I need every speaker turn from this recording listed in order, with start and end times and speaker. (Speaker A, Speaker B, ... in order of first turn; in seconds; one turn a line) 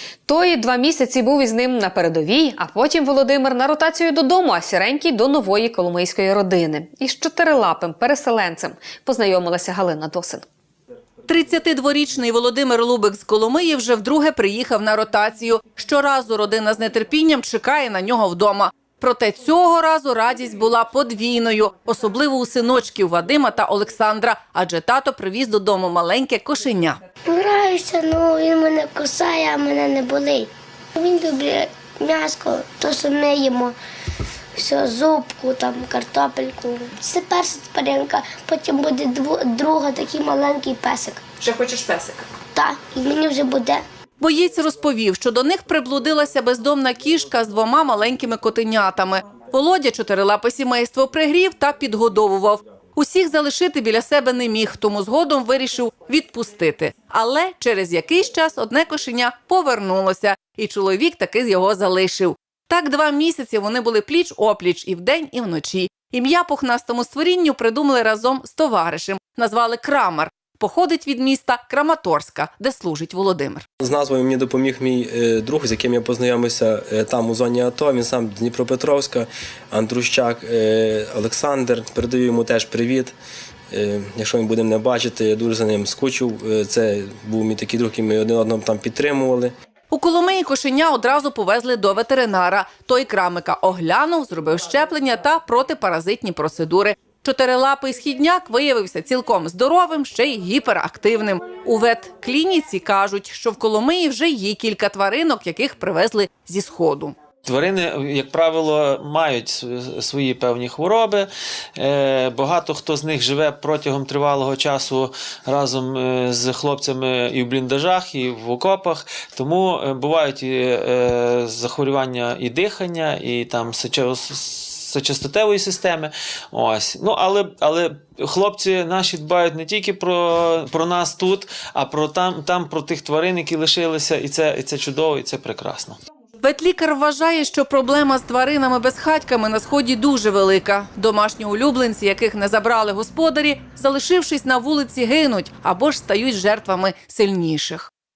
Speaker A: 0.3-10.4
Speaker B: 11.3-27.0
Speaker C: 27.3-33.7
Speaker C: 34.5-41.2
Speaker B: 41.4-42.3
Speaker C: 42.5-43.8
Speaker B: 44.2-73.7
Speaker D: 73.8-83.2
Speaker D: 83.7-89.5
Speaker B: 89.9-107.1
Speaker E: 107.5-136.0
Speaker B: 136.4-147.9